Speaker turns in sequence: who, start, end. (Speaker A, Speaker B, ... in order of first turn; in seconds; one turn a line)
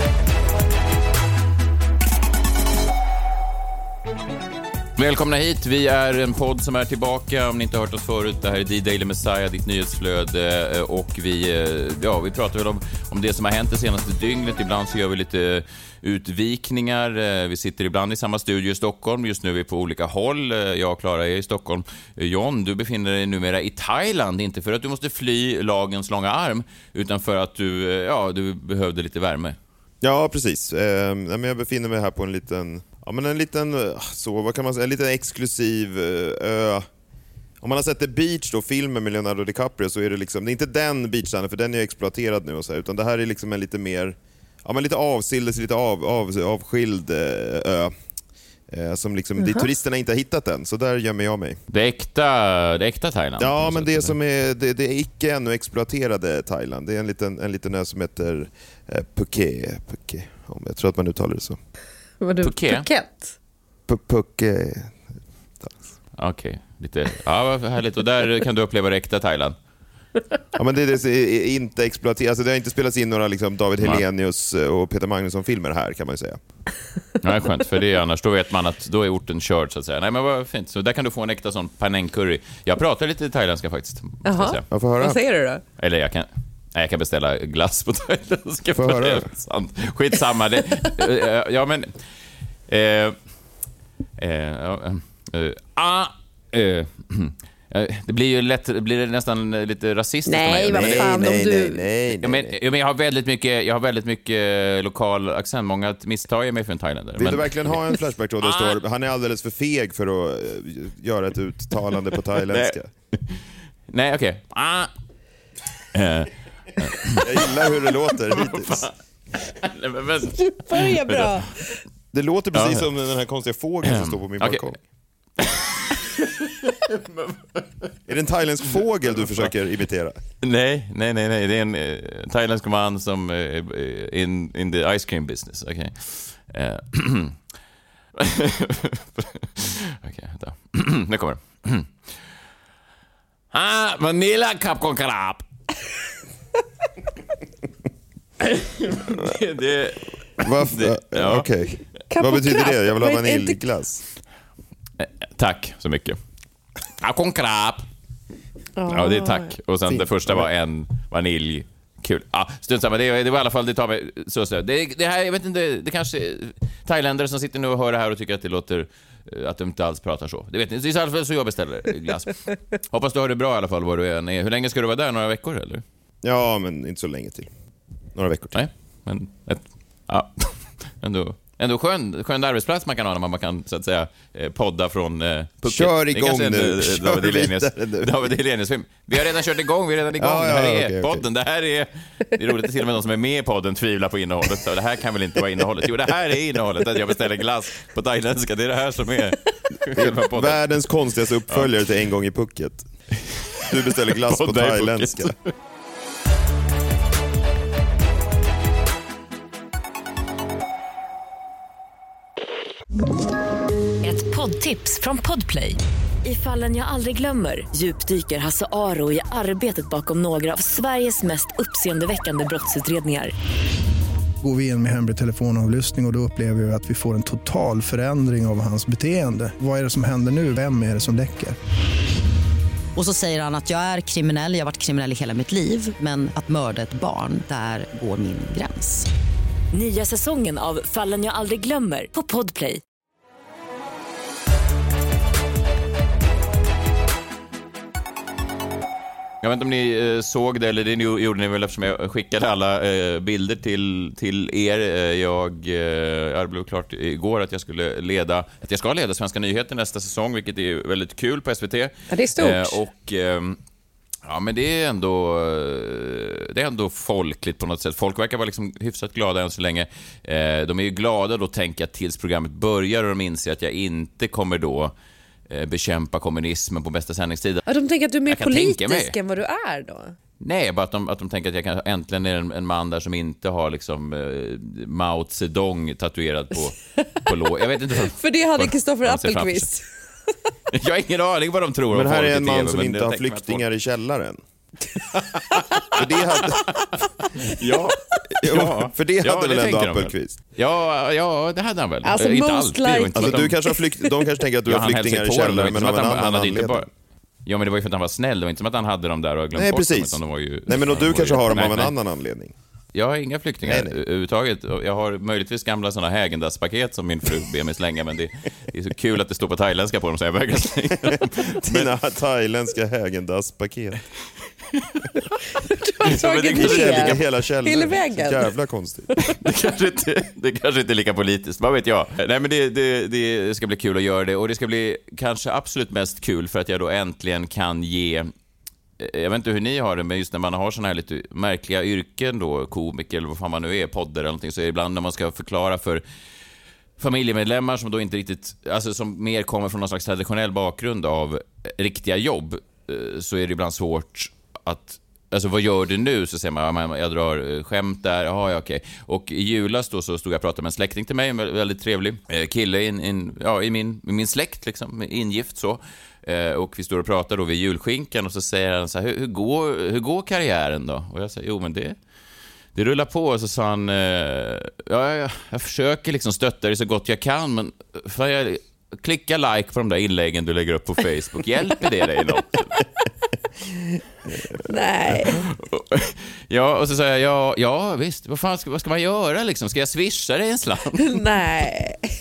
Speaker A: 5.0-29.6
Speaker B: 30.0-36.9
Speaker B: 37.6-47.9
Speaker B: 48.7-51.6
Speaker A: 51.7-54.1
Speaker B: 53.4-61.6
Speaker C: 62.2-63.3
Speaker A: 62.4-62.9
Speaker B: 63.9-65.0
Speaker A: 66.2-69.5
Speaker B: 70.5-76.4
Speaker A: 77.2-84.6
Speaker C: 84.2-85.6
Speaker B: 84.7-85.2
Speaker A: 85.8-91.9
Speaker B: 88.8-89.3
Speaker A: 92.7-93.2
Speaker A: 94.2-101.2
Speaker C: 100.3-101.8
Speaker B: 100.7-102.5
Speaker A: 102.2-108.8
Speaker B: 107.2-112.9
Speaker A: 112.5-114.9
Speaker A: 115.9-117.5
Speaker B: 117.2-118.9
Speaker A: 118.3-118.9
Speaker A: 119.4-121.5
Speaker C: 120.4-121.7
Speaker B: 122.1-124.8
Speaker A: 122.5-122.9
Speaker A: 123.8-124.6
Speaker A: 125.4-127.9
Speaker B: 128.1-130.2
Speaker A: 130.4-137.4
Speaker A: 138.2-141.9
Speaker A: 143.5-145.4
Speaker A: 148.4-151.4
Speaker B: 150.4-154.0
Speaker C: 152.1-153.6
Speaker A: 155.0-156.2
Speaker A: 157.0-157.8
Speaker C: 158.8-159.5
Speaker A: 158.9-175.8
Speaker B: 159.9-160.4
Speaker B: 176.2-177.5
Speaker B: 178.1-178.6
Speaker A: 178.5-200.6
Speaker B: 185.6-188.3
Speaker B: 190.2-191.2
Speaker B: 199.9-202.8
Speaker A: 203.3-205.5
Speaker B: 203.7-205.3
Speaker D: 214.0-223.3
Speaker E: 224.4-231.6
Speaker F: 232.9-239.1
Speaker D: 239.7-242.8
Speaker A: 249.4-263.6
Speaker C: 262.1-262.8
Speaker A: 264.2-274.9
Speaker A: 275.5-277.6
Speaker C: 277.7-280.1
Speaker A: 278.3-279.1
Speaker A: 280.4-289.7
Speaker C: 288.1-289.8
Speaker A: 290.7-293.6
Speaker B: 291.9-294.4
Speaker A: 295.1-295.9
Speaker B: 295.9-296.7
Speaker A: 296.8-303.6
Speaker B: 298.4-300.4
Speaker C: 302.0-303.7
Speaker B: 303.1-306.9
Speaker A: 304.7-306.9
Speaker A: 307.4-311.9
Speaker B: 309.5-312.5
Speaker A: 312.9-321.9
Speaker B: 313.6-314.0
Speaker B: 321.6-324.0
Speaker A: 324.7-325.2
Speaker C: 325.6-328.5
Speaker A: 326.1-327.2
Speaker B: 326.5-329.1
Speaker A: 329.3-338.3
Speaker A: 339.0-346.0
Speaker A: 347.0-372.0
Speaker A: 372.7-382.8
Speaker B: 384.3-384.6
Speaker C: 384.7-385.4
Speaker B: 385.1-385.4
Speaker A: 385.4-391.2
Speaker C: 391.1-392.1